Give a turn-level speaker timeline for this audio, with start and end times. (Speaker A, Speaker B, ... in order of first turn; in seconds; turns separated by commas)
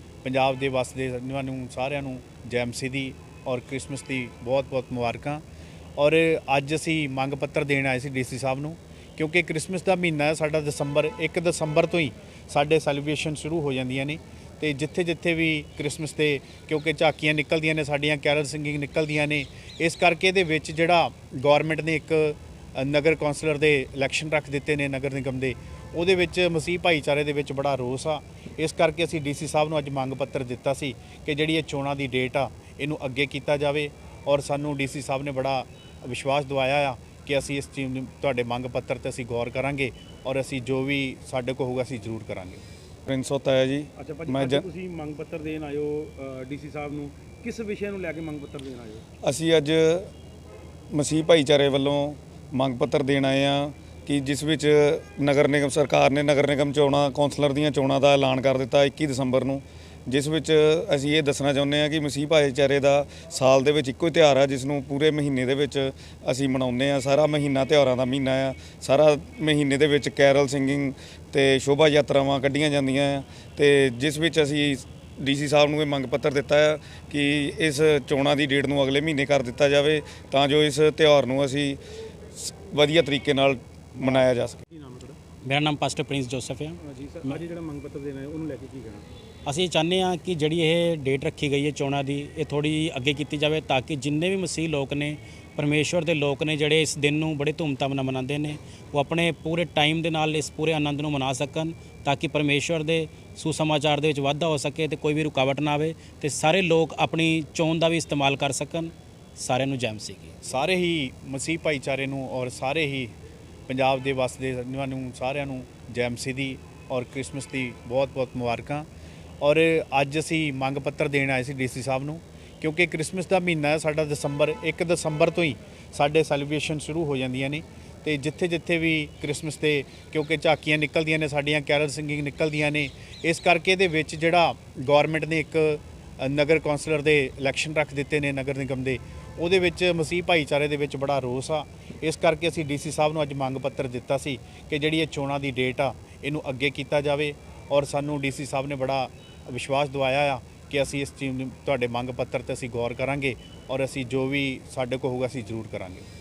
Speaker A: 0.2-5.4, Speaker A: 6.0-42.6, Speaker B: 43.1-44.6, Speaker C: 44.0-49.0, Speaker B: 49.2-50.1, Speaker B: 50.9-81.8, Speaker B: 82.3-84.6, Speaker C: 84.0-85.2, Speaker D: 85.5-87.4, Speaker C: 86.8-89.1, Speaker D: 89.5-110.4, Speaker A: 110.5-113.1, Speaker A: 113.7-118.9, Speaker A: 119.4-156.1